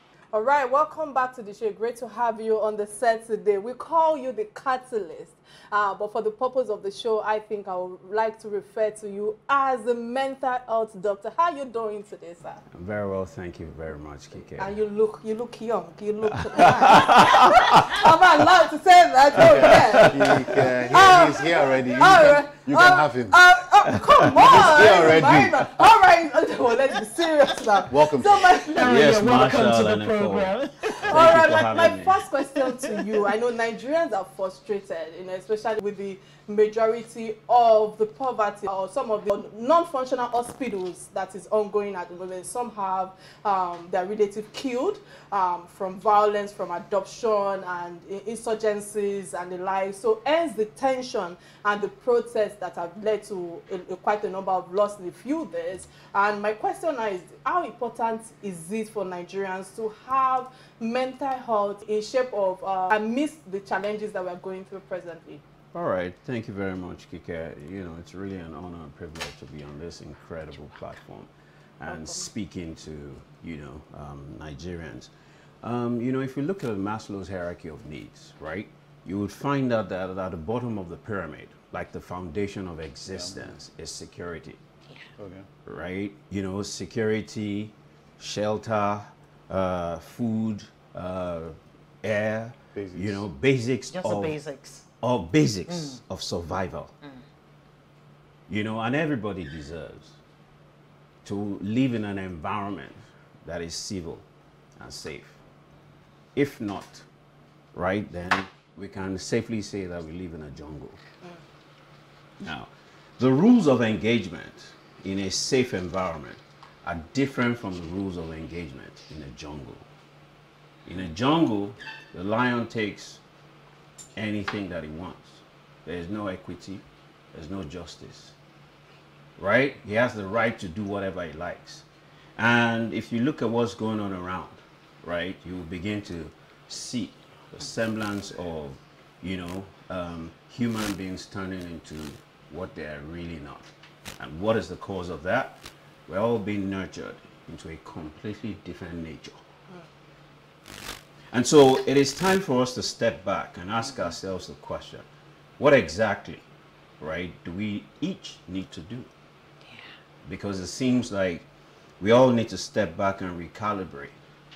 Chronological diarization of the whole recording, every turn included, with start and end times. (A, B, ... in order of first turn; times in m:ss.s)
0:00.3-0:12.6 A
0:12.7-0:14.8 B
0:14.6-0:20.3 A
0:16.5-0:18.0 B
0:19.3-0:23.4 C
0:19.4-0:20.7 B
0:20.9-0:28.9 A
0:24.3-0:25.6 C
0:24.5-0:25.5 B
0:27.9-0:28.6 C
0:28.7-0:31.4 D
0:28.8-0:32.2 B
0:31.1-1:05.4 A
0:32.6-0:33.1 D
1:05.7-1:15.1 B
1:11.9-1:12.2 A
1:15.6-1:24.6 B
1:23.1-1:23.6 C
1:25.2-1:25.5 C
1:25.6-1:34.4 B
1:32.7-1:33.2 C
1:33.9-1:34.8 D
1:35.0-1:36.9 B
1:35.7-1:36.0 D
1:38.5-1:40.2 B
1:41.2-1:44.2 B
1:44.8-1:45.4 B
1:46.4-1:47.0 B
1:47.7-1:51.0 B
1:52.4-1:59.8 B
2:00.8-2:03.2 B
2:04.2-2:08.3 B
2:09.4-2:11.8 B
2:12.4-2:23.7 B
2:24.2-2:29.4 B
2:31.3-2:35.0 B
2:35.6-2:36.4 B
2:37.0-2:39.1 B
2:40.2-2:41.4 B
2:42.0-2:44.1 B